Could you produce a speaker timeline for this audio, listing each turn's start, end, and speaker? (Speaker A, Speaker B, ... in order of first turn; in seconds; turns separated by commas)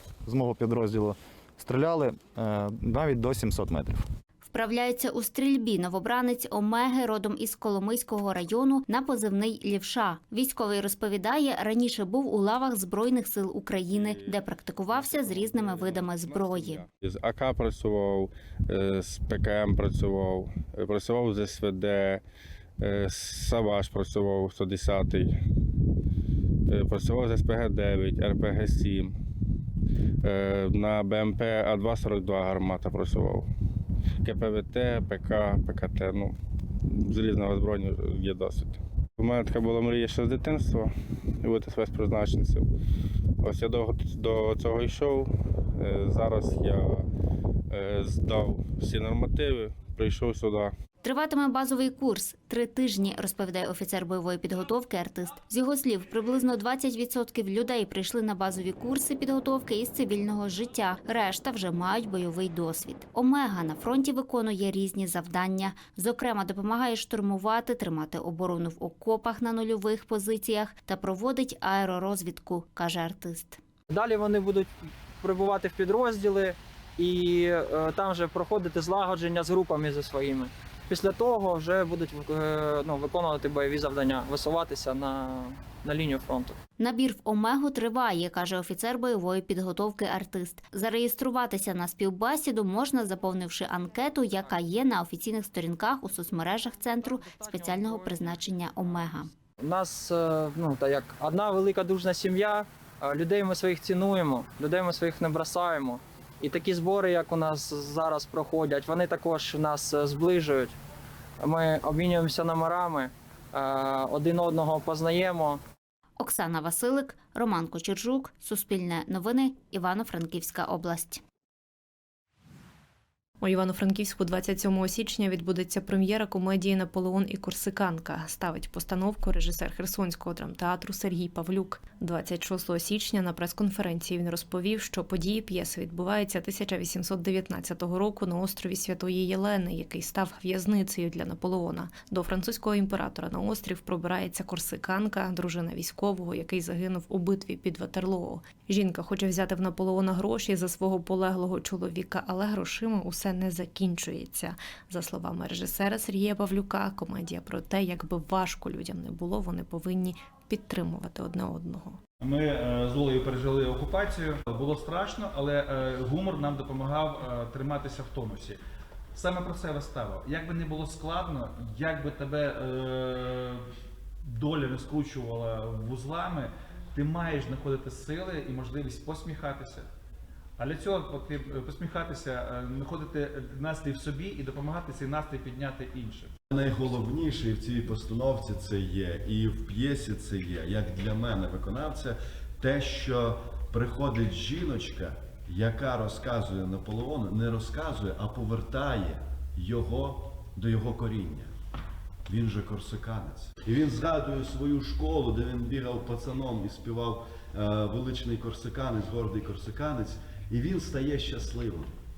Speaker A: 0.2-4.0, Speaker B: 4.4-16.8, Speaker C: 13.9-22.2, Speaker C: 22.8-25.4, Speaker C: 26.7-29.1, Speaker C: 30.2-33.5, Speaker C: 34.2-36.4, Speaker C: 36.9-40.9, Speaker C: 41.4-42.6, Speaker C: 43.4-47.0, Speaker C: 47.7-50.7, Speaker B: 51.0-73.6, Speaker D: 73.9-74.7, Speaker D: 75.2-86.5, Speaker B: 86.8-99.3, Speaker D: 97.0-98.3, Speaker D: 99.6-110.7, Speaker D: 111.4-115.6, Speaker B: 116.2-121.2, Speaker E: 123.4-162.0, Speaker F: 162.2-168.6, Speaker F: 169.1-173.6, Speaker F: 174.2-179.9, Speaker F: 180.6-186.3, Speaker G: 186.5-201.5, Speaker G: 202.3-211.9